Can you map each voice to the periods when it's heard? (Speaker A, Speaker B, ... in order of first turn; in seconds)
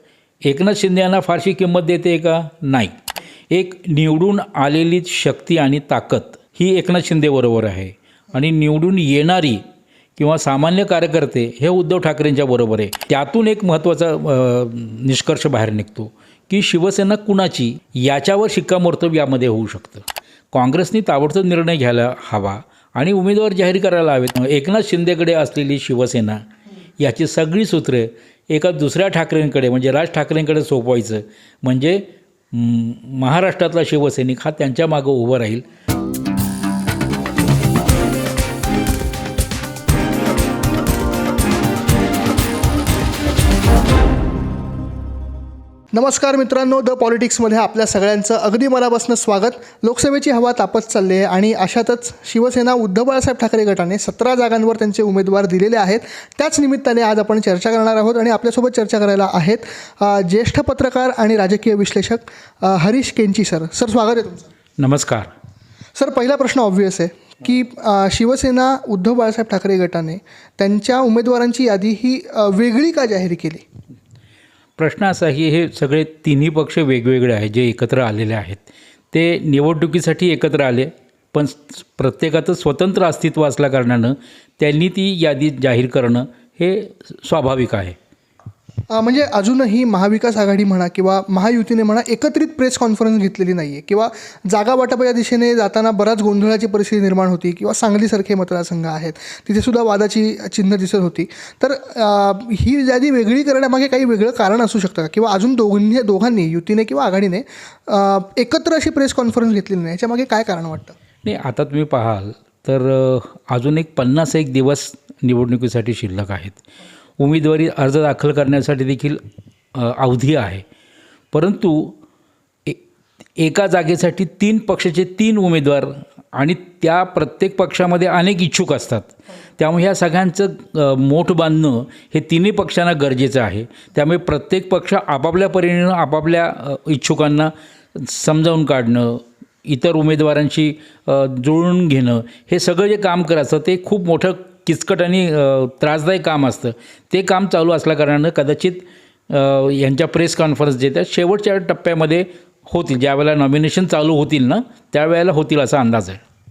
Speaker A: 0.4-3.0, 3.5-9.6, 10.2-26.4, 27.0-35.6, 64.8-65.3, 74.8-88.0, 111.2-116.6, 117.2-119.2, 119.7-120.6, 121.3-122.0, 123.4-156.2
Speaker B: 45.9-64.5, 65.9-73.6, 88.9-110.9